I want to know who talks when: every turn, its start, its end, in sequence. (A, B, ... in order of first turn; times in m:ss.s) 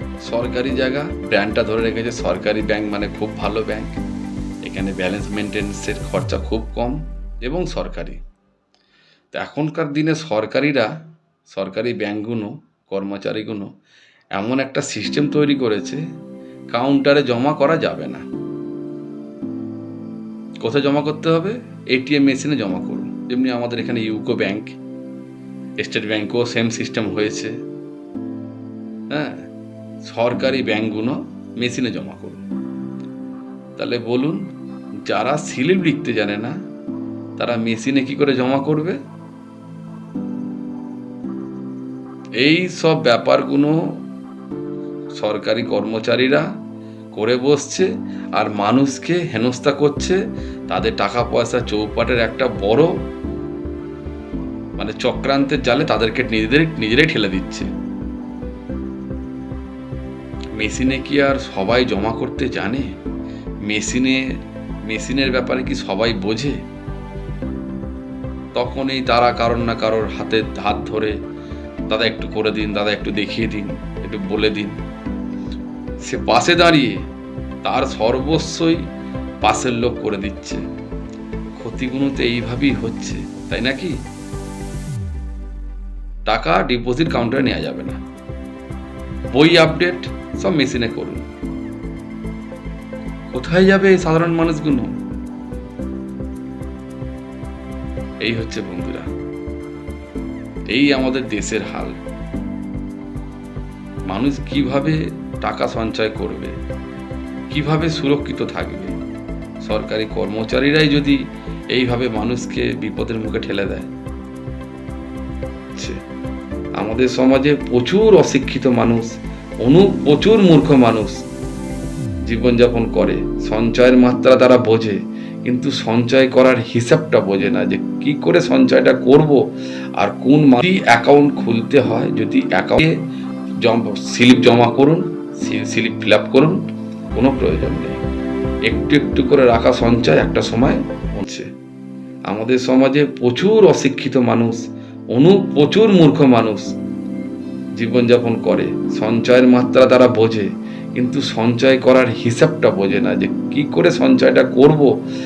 0:00.2-0:04.0 A
0:04.6-0:08.2 A
0:09.3-0:10.9 A
0:11.5-0:13.7 A
0:14.4-0:16.0 A
0:16.7-0:18.2 A
0:20.6-0:24.8 A
0:25.8-0:27.5 A
0:29.1-0:29.5 A
0:30.0-0:32.4 A
0:33.8-0:34.4 A
0:35.1-0:36.5 A
0:37.4-0:39.0 A
0:42.4-0:43.8 A
0:45.2-0:46.4 A
0:47.2-0:52.9 A
0:54.8-0:57.7 A
1:00.6-1:02.9 A
1:03.7-1:04.3 A
1:04.9-1:06.6 A
1:08.6-1:11.2 A
1:11.9-1:14.8 A
1:16.0-1:17.0 A
1:17.6-1:18.8 A
1:19.4-1:20.6 A
1:21.6-1:24.0 A
1:26.3-1:28.0 A
1:29.3-1:31.2 A
1:33.3-1:34.9 A
1:38.2-1:39.1 A
1:40.7-1:42.0 A
1:44.1-1:46.6 A
1:47.5-1:48.9 A
1:49.6-1:53.9 A
1:56.8-1:59.1 A
1:59.6-2:01.2 A
2:02.3-2:09.4 A
2:10.0-2:12.9 A
2:13.6-2:16.6 A
2:17.2-2:18.0 A
2:18.7-2:21.5 A
2:22.3-2:24.6 A
2:25.1-2:26.7 A
2:27.8-2:34.9 A